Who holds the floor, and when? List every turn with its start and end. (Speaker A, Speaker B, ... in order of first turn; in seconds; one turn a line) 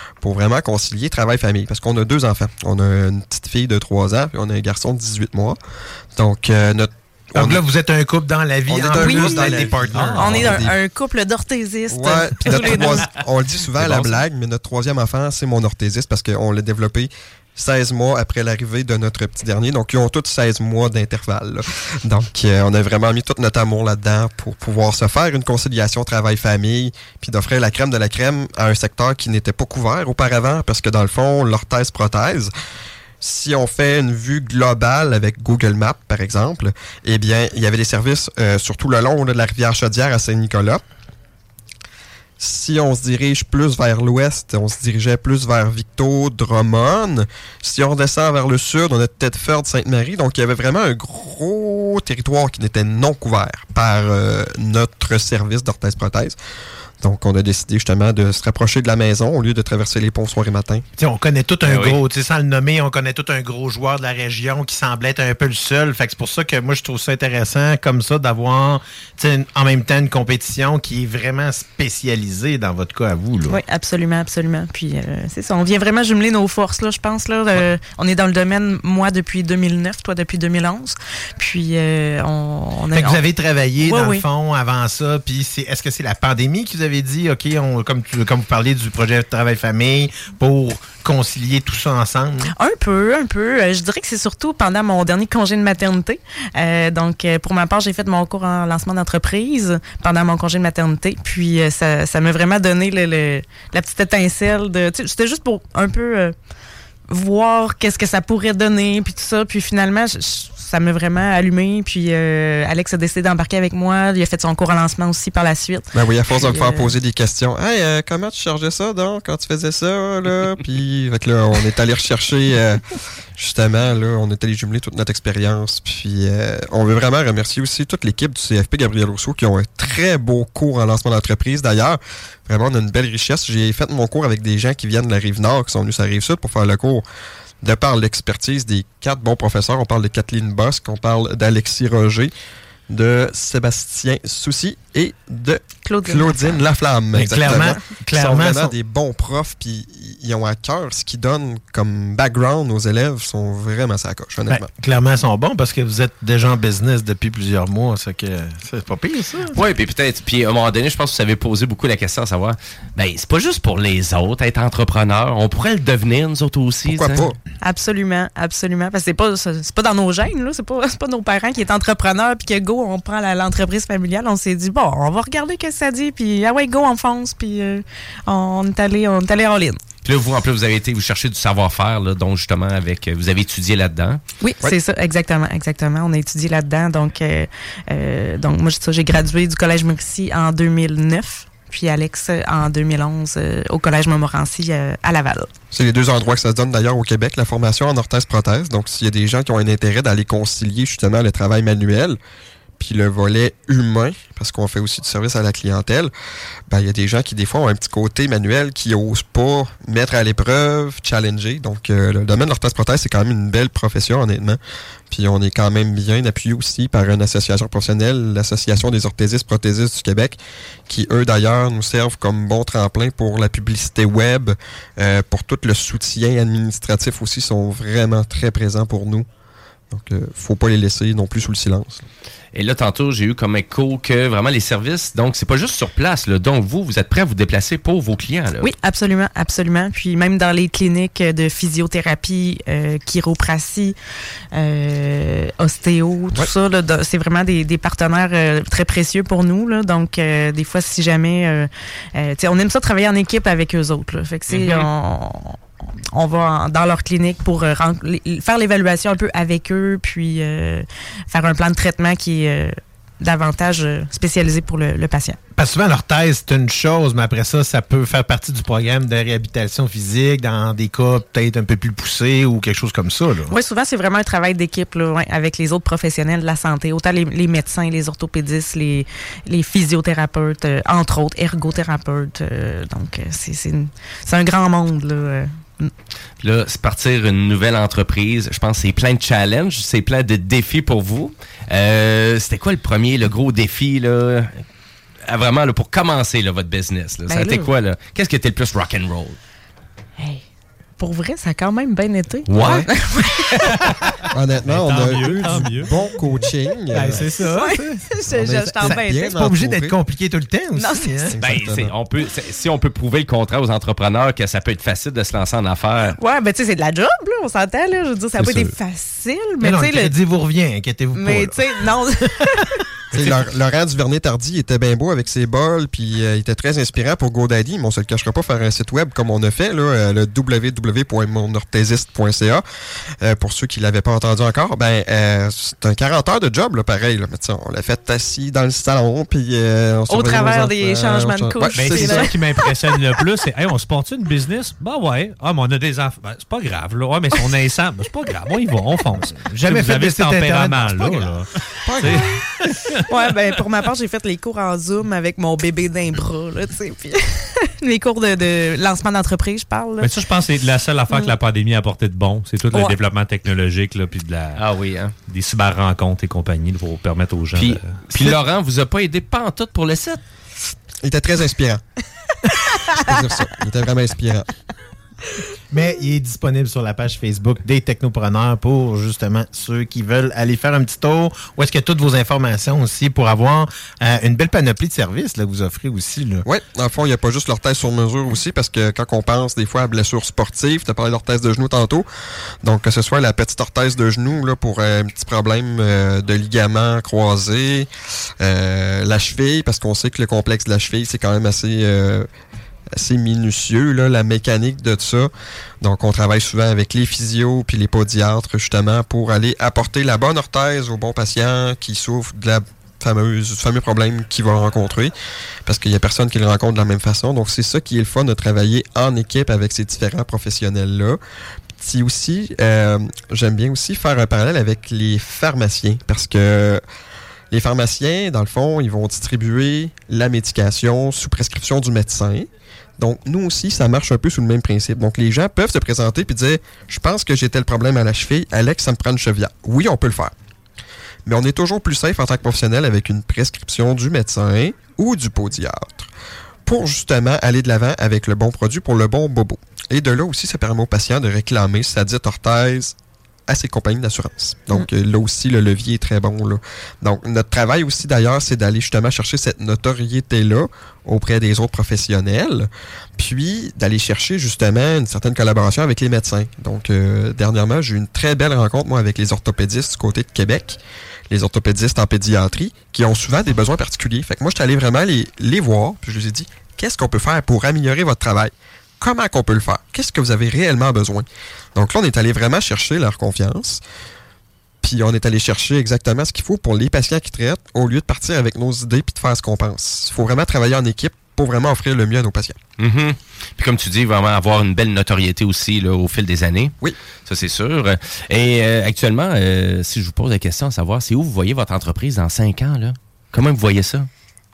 Speaker A: 0.2-5.6
Speaker A: 6.2-7.6
Speaker B: 7.3-10.7
Speaker A: 8.7-10.8
Speaker C: 9.0-9.6
Speaker D: 9.9-10.4
Speaker C: 10.2-13.2
Speaker A: 11.9-32.5
Speaker E: 13.8-14.2
Speaker A: 33.2-40.8
Speaker A: 42.4-56.4
Speaker A: 57.0-60.8
Speaker B: 61.0-73.6
Speaker E: 61.7-62.0
Speaker C: 73.5-83.2
Speaker B: 82.9-92.5
Speaker C: 83.8-84.2
Speaker C: 92.5-106.3
Speaker C: 107.1-116.9
Speaker A: 115.9-122.8
Speaker A: 123.4-137.1
Speaker A: 137.6-142.3
Speaker A: 142.9-154.7
Speaker C: 145.8-146.6
Speaker B: 147.1-148.8
Speaker C: 147.5-147.8
Speaker B: 154.5-159.6
Speaker E: 159.5-167.3
Speaker A: 166.9-167.4
Speaker C: 167.6-179.8
Speaker E: 180.0-184.2
Speaker C: 184.4-195.5
Speaker A: 195.7-202.2
Speaker A: 202.8-206.1
Speaker A: 206.7-214.6
Speaker A: 215.1-220.4
Speaker A: 220.9-229.3
Speaker A: 229.9-232.0
Speaker E: 232.5-238.7
Speaker C: 238.6-243.9
Speaker C: 244.5-255.6
Speaker E: 254.5-254.9
Speaker C: 256.1-265.4
Speaker B: 265.6-273.6
Speaker C: 273.5-285.9
Speaker E: 286.4-294.6
Speaker E: 295.3-299.4
Speaker C: 297.3-297.7
Speaker C: 300.2-300.4
Speaker C: 301.0-303.8
Speaker E: 302.5-302.9
Speaker A: 302.6-302.9
Speaker A: 304.3-307.3
Speaker D: 304.6-305.9
Speaker B: 305.4-305.9
Speaker B: 306.9-311.3
Speaker C: 307.5-309.4
Speaker A: 308.3-309.9
Speaker C: 310.8-311.3
Speaker A: 311.3-311.9
Speaker E: 311.4-316.2
Speaker C: 316.2-320.1
Speaker E: 318.4-318.7
Speaker B: 319.6-322.6
Speaker C: 321.1-322.8
Speaker B: 323.1-323.4
Speaker A: 323.1-332.6
Speaker A: 333.2-342.2
Speaker C: 340.1-342.3
Speaker D: 341.8-353.0
Speaker B: 341.8-342.8
Speaker B: 349.4-351.4
Speaker A: 351.9-352.3
Speaker C: 353.1-360.1
Speaker D: 360.0-364.6
Speaker C: 361.1-361.4
Speaker E: 364.6-365.1
Speaker D: 365.3-367.9
Speaker E: 367.6-370.2
Speaker A: 371.0-371.8
Speaker C: 372.7-373.6
Speaker A: 373.0-374.5
Speaker B: 375.7-386.4
Speaker A: 386.4-392.1
Speaker A: 392.6-397.9
Speaker A: 398.4-402.3
Speaker A: 403.0-405.3
Speaker A: 405.8-415.1
Speaker A: 415.7-421.2
Speaker A: 421.8-426.8
Speaker A: 427.5-432.5
Speaker A: 433.0-440.3
Speaker A: 441.3-446.1
Speaker A: 446.7-452.9
Speaker A: 453.5-470.8
Speaker A: 471.3-483.8
Speaker A: 484.8-492.6
Speaker E: 492.8-496.8
Speaker E: 497.3-504.1